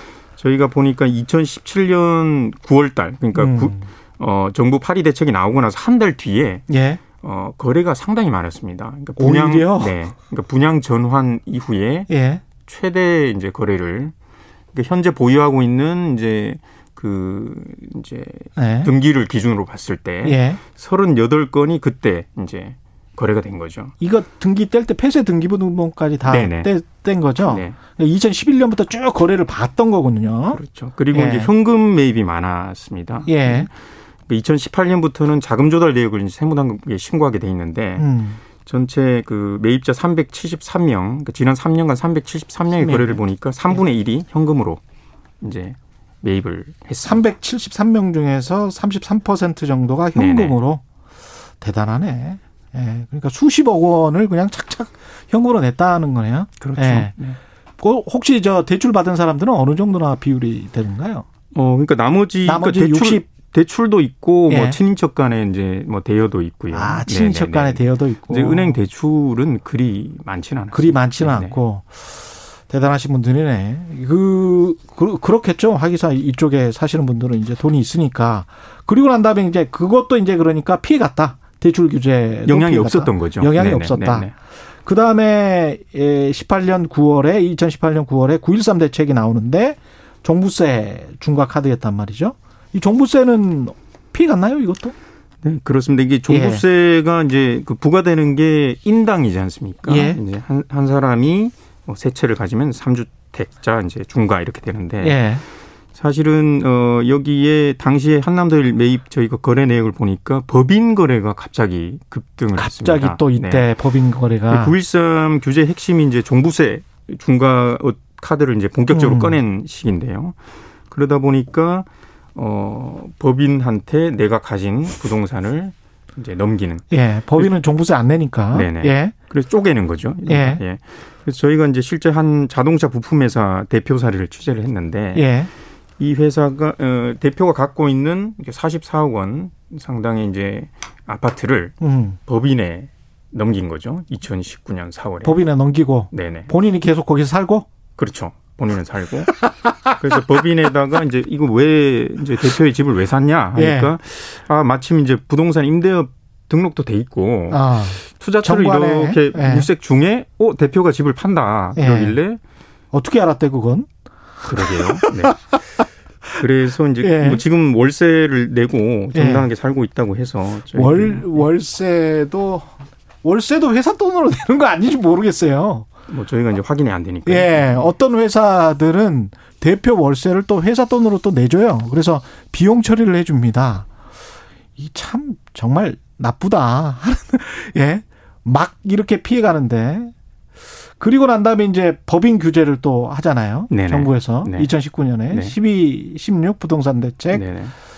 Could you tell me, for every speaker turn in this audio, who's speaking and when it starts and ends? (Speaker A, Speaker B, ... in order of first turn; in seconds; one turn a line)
Speaker A: 0.4-6.7
Speaker B: 3.3-3.9
Speaker B: 6.7-7.0
Speaker A: 7.2-12.1
Speaker B: 9.2-10.0
Speaker B: 12.1-12.4
Speaker A: 12.6-14.1
Speaker A: 14.7-23.9
Speaker B: 18.6-18.9
Speaker B: 20.2-20.6
Speaker B: 24.0-30.6
Speaker A: 26.2-26.7
Speaker A: 27.4-27.8
Speaker A: 30.5-33.7
Speaker B: 31.1-31.5
Speaker B: 33.2-33.7
Speaker A: 34.3-38.1
Speaker B: 38.0-38.4
Speaker A: 38.6-44.8
Speaker B: 42.8-43.8
Speaker A: 45.4-47.3
Speaker B: 47.0-50.8
Speaker A: 50.1-50.6
Speaker B: 51.6-57.1
Speaker A: 56.6-57.4
Speaker B: 57.8-61.2
Speaker A: 61.5-71.6
Speaker B: 62.4-63.3
Speaker B: 64.5-64.8
Speaker B: 66.7-68.8
Speaker B: 70.7-84.3
Speaker A: 82.4-84.3
Speaker B: 84.8-94.9
Speaker A: 95.4-105.2
Speaker B: 96.3-96.6
Speaker B: 99.8-100.2
Speaker B: 105.0-105.4
Speaker A: 105.9-113.8
Speaker B: 112.5-114.7
Speaker A: 114.5-120.3
Speaker B: 118.9-119.4
Speaker A: 120.9-127.5
Speaker B: 126.9-129.1
Speaker A: 128.5-135.3
Speaker B: 130.3-130.6
Speaker B: 135.1-135.5
Speaker A: 136.0-141.8
Speaker B: 141.8-142.2
Speaker A: 142.3-145.4
Speaker B: 145.2-147.7
Speaker A: 146.1-146.5
Speaker A: 148.0-162.4
Speaker B: 149.4-149.8
Speaker B: 153.5-153.9
Speaker B: 157.5-159.7
Speaker B: 161.8-162.2
Speaker B: 162.9-163.9
Speaker A: 164.4-165.4
Speaker B: 164.6-165.6
Speaker A: 166.4-171.5
Speaker B: 167.0-167.4
Speaker B: 169.1-169.4
Speaker B: 170.7-175.9
Speaker A: 176.1-177.9
Speaker B: 177.2-183.9
Speaker B: 184.8-190.1
Speaker B: 191.0-197.4
Speaker A: 193.7-194.7
Speaker A: 195.3-195.6
Speaker A: 197.3-197.7